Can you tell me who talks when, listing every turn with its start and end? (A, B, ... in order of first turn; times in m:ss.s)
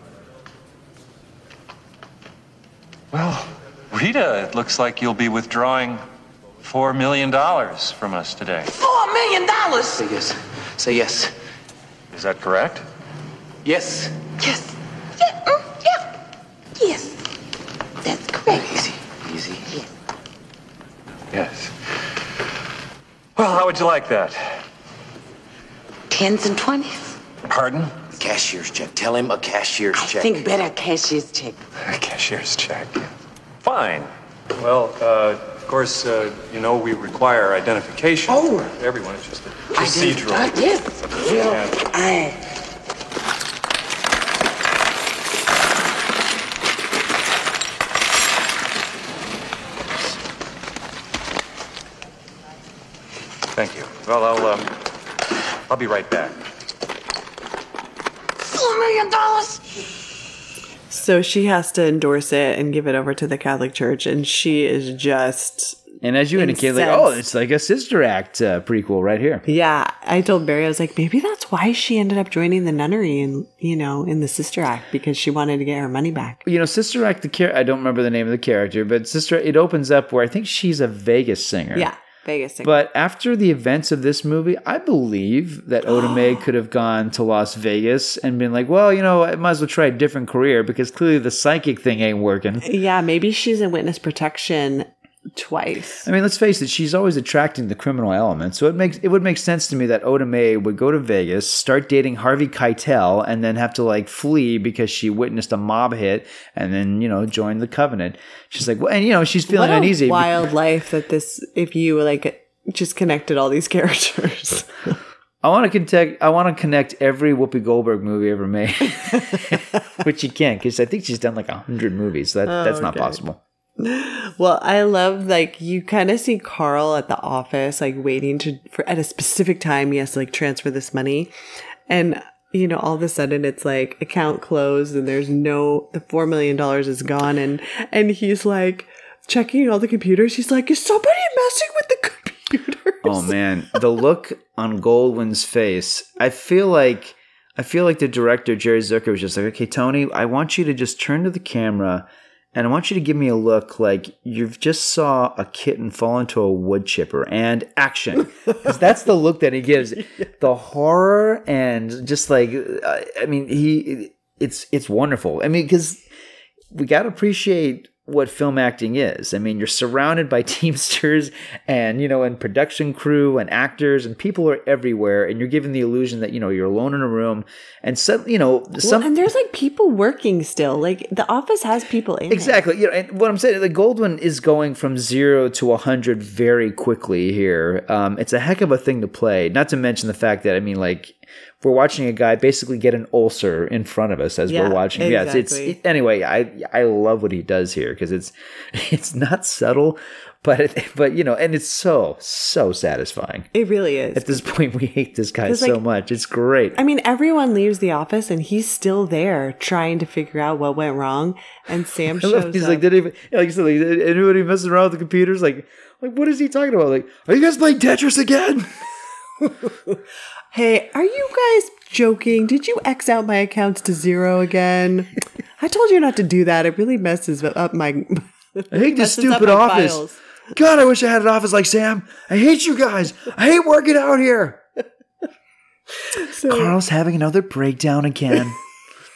0:03.1-0:06.0 A
0:06.6-0:08.7 A
0:08.8-0:10.1 B
0:10.1-0:11.3 C
0:12.1-0:12.8 A
0:13.6-0:14.1 C
0:14.4-0:14.7 B
0:15.2-0:16.0 B
0:16.8-0:17.2 B
0:18.0-0:19.0 B
0:19.2-0:19.6 C
0:21.3-0:21.7 A
0:23.4-0:24.6 A
0:26.1-0:27.1 B
0:27.5-0:28.1 A
0:28.1-0:30.4 C
0:29.9-0:31.6 B
0:31.8-0:33.1 A
0:33.6-0:41.9 A
0:38.3-0:38.7 B
0:39.7-0:42.4 B
0:53.5-0:54.8 A
0:55.7-0:56.4 A
0:58.4-0:59.6 B
1:00.9-1:05.8 D
1:06.0-1:09.4 E
1:06.4-1:07.2 D
1:09.4-1:16.4 D
1:16.4-1:21.9 E
1:21.7-1:22.8 D
1:22.6-1:32.7 E
1:32.6-1:36.1 D
1:36.0-1:50.4 E
1:49.5-1:55.0 D
1:55.4-2:03.4 E
2:02.4-2:03.2 D
2:03.8-2:11.3 D
2:11.9-2:23.3 D
2:23.0-2:46.0 E
2:46.7-2:59.1 E
2:58.8-3:02.6 D
3:02.3-3:23.5 E
3:14.5-3:15.7 D
3:23.5-3:24.4 D
3:24.1-3:26.8 E
3:25.4-3:25.8 D
3:26.8-3:32.8 D
3:32.2-3:38.9 E
3:39.6-3:39.9 D
3:40.5-3:50.2 D
3:48.7-3:54.6 E
3:56.1-3:56.7 D
3:56.4-3:58.6 E